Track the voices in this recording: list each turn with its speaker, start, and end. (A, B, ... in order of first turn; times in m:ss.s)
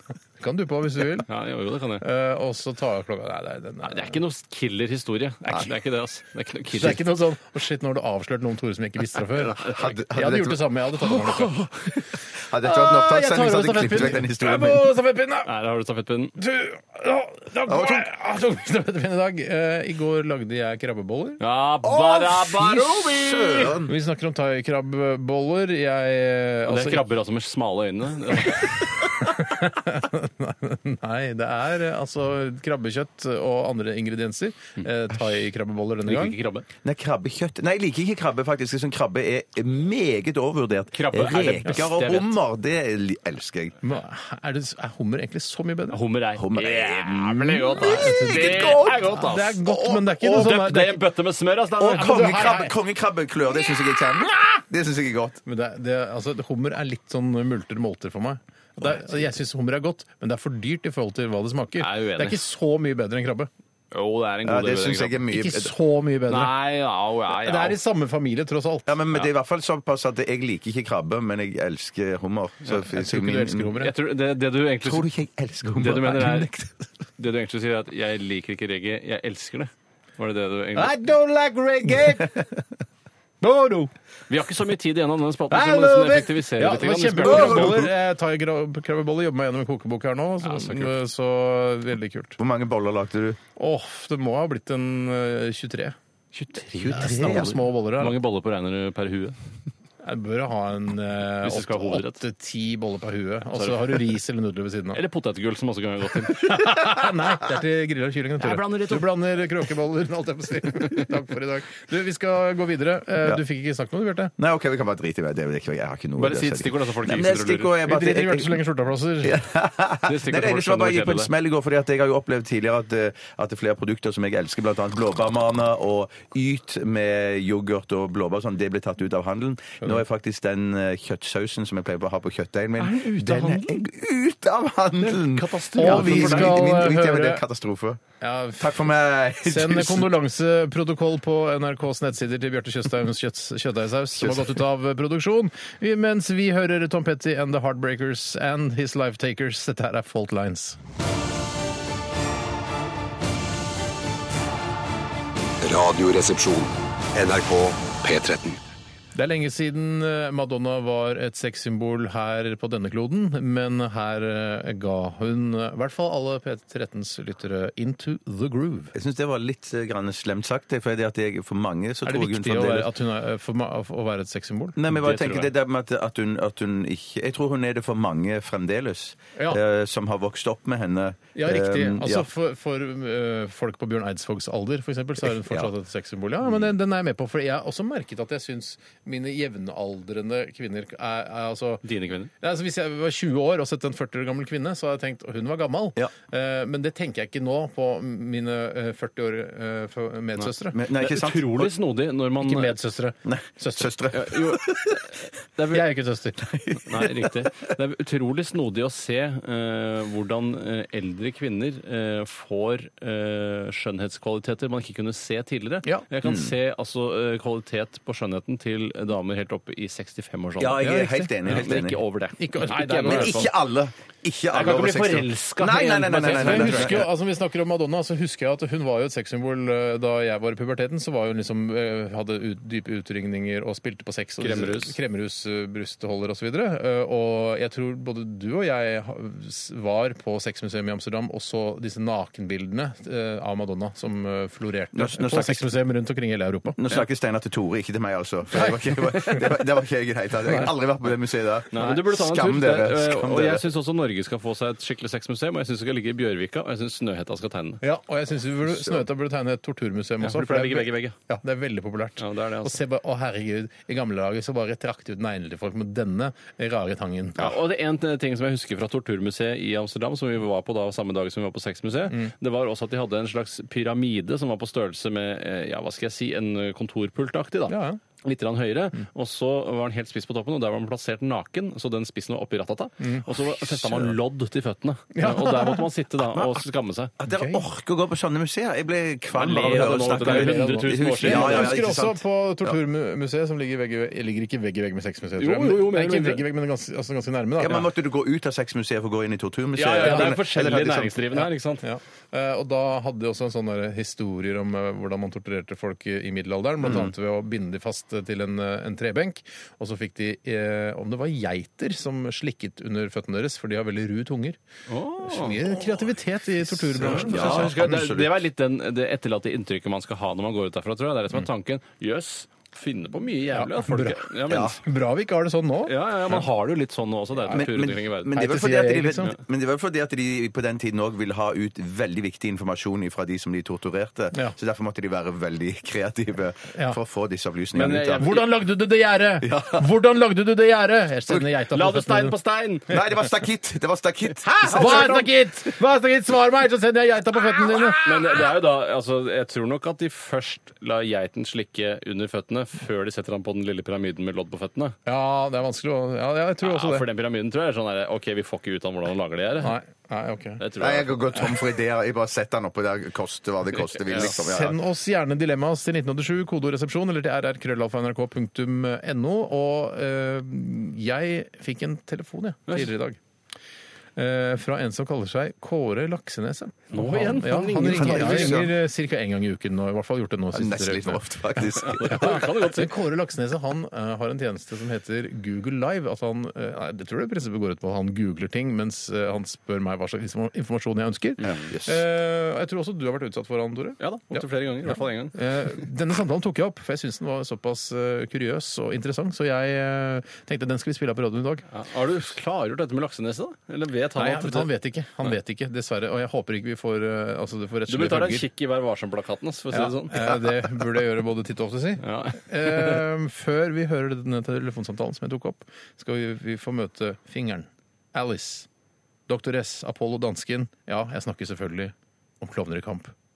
0:00.4-0:01.3 A
0:01.3-0:02.0 B
0:02.0-0:04.2 A
0:03.9-0:07.0 B
0:06.7-0:11.7 A
0:09.4-0:09.8 B
0:09.6-0:14.9 C
0:12.6-0:15.5 A
0:15.5-0:16.4 B
0:16.4-0:21.4 A
0:17.7-0:18.1 C
0:21.4-0:23.8 B
0:21.8-0:23.9 C
0:23.9-0:27.0 A
0:26.7-0:29.1 B
0:28.4-0:36.4 A
0:36.1-0:36.7 B
0:36.8-0:43.8 C
0:40.9-0:42.4 B
0:43.8-0:46.0 A
0:45.9-0:49.6 B
0:46.4-0:50.3 C
0:47.8-0:51.0 A
0:50.2-0:52.3 B
0:51.8-0:55.4 C
0:51.8-0:52.7 A
0:55.4-1:03.5 A
1:01.8-1:02.4 B
1:03.9-1:05.2 B
1:04.4-1:05.7 C
1:05.3-1:06.5 A
1:06.3-1:07.8 B
1:07.4-1:08.9 A
1:08.9-1:13.7 C
1:12.9-1:13.9 A
1:13.8-1:15.1 B
1:14.8-1:16.9 C
1:15.8-1:16.5 B
1:17.2-1:21.0 B
1:20.8-1:22.3 A
1:23.4-1:23.9 A
1:24.3-1:27.9 B
1:25.5-1:32.4 A
1:27.2-1:27.9 C
1:30.4-1:30.9 B
1:32.4-1:33.4 C
1:33.6-1:36.0 A
1:36.4-1:39.4 B
1:36.7-1:37.6 C
1:36.9-1:38.2 A
1:40.0-1:45.0 A
1:41.4-1:42.2 B
1:43.6-1:44.1 B
1:44.9-1:46.8 B
1:46.2-1:54.3 A
1:48.4-1:49.2 B
1:54.4-1:58.6 C
1:56.2-1:57.7 B
1:57.9-1:59.4 A
1:59.2-2:18.0 C
2:00.1-2:01.3 B
2:12.8-2:13.8 B
2:15.0-2:16.6 B
2:15.8-2:17.4 A
2:18.2-2:18.8 A
2:18.6-2:20.1 C
2:19.4-2:30.8 A
2:24.2-2:24.6 C
2:35.6-2:38.6 D
2:39.2-2:48.9 A
2:48.9-2:52.9 C
2:52.1-2:54.8 A
2:54.8-3:02.3 C
2:54.9-2:55.5 B
3:01.4-3:11.8 A
3:05.2-3:05.7 C
3:06.4-3:06.7 C
3:11.8-3:12.3 B
3:12.4-3:20.8 A
3:20.4-3:22.8 B
3:20.7-3:21.7 C
3:22.4-3:23.9 A
3:23.2-3:25.0 C
3:24.1-3:25.1 B
3:25.6-3:25.8 B
3:25.7-3:26.4 A
3:26.4-3:27.5 C
3:26.9-3:40.8 B
3:36.2-3:36.6 C
3:40.6-3:42.0 C
3:40.8-3:41.3 A
3:41.5-3:43.5 B
3:42.4-3:43.5 A
3:43.0-3:47.1 C
3:44.5-3:47.1 B
3:46.2-4:06.8 A
3:54.4-3:55.0 B
4:04.9-4:05.7 C
4:06.8-4:13.7 C
4:08.6-4:09.4 A
4:11.7-4:17.8 B
4:17.8-4:27.5 A
4:18.7-4:19.0 C
4:20.2-4:21.2 B
4:22.2-4:22.8 B
4:27.4-4:47.1 B
4:37.7-4:38.0 A
4:43.0-4:44.1 A
4:45.2-4:45.9 A
4:46.2-4:46.6 C
4:47.2-4:52.8 C
4:47.3-4:47.6 A
4:49.3-4:51.8 B
4:49.6-4:57.9 A
4:55.4-4:56.5 B
4:57.6-5:01.4 C
4:59.8-5:01.8 B
5:00.0-5:00.3 A
5:01.8-5:14.6 A
5:06.8-5:07.1 C
5:14.9-5:15.8 B
5:15.2-5:18.0 A
5:16.9-5:18.4 C
5:17.0-5:24.8 B
5:23.5-5:24.3 A
5:24.5-5:24.8 C
5:24.8-5:25.9 A
5:25.9-5:28.4 B
5:27.5-5:38.3 C
5:28.3-5:29.3 A
5:37.8-5:38.5 B
5:38.2-5:42.4 A
5:39.4-5:39.9 C
5:41.7-5:43.0 B
5:42.9-5:45.4 C
5:44.6-5:48.0 A
5:44.7-5:45.2 B
5:48.0-5:55.0 B
5:55.1-5:57.0 A
5:56.6-5:59.8 B
5:59.6-6:00.6 A
6:00.6-6:01.2 B
6:00.8-6:04.8 C
6:04.1-6:13.2 A
6:14.2-6:21.2 A
6:16.9-6:18.7 B
6:17.8-6:18.7 C
6:20.5-6:22.4 C
6:21.8-6:22.9 B
6:21.9-6:41.6 A
6:31.4-6:32.0 C
6:34.0-6:35.4 B
6:41.7-6:44.7 B
6:44.2-6:48.4 A
6:47.9-6:50.3 B
6:49.7-6:58.7 A
6:52.0-6:53.0 B
6:59.3-7:03.1 A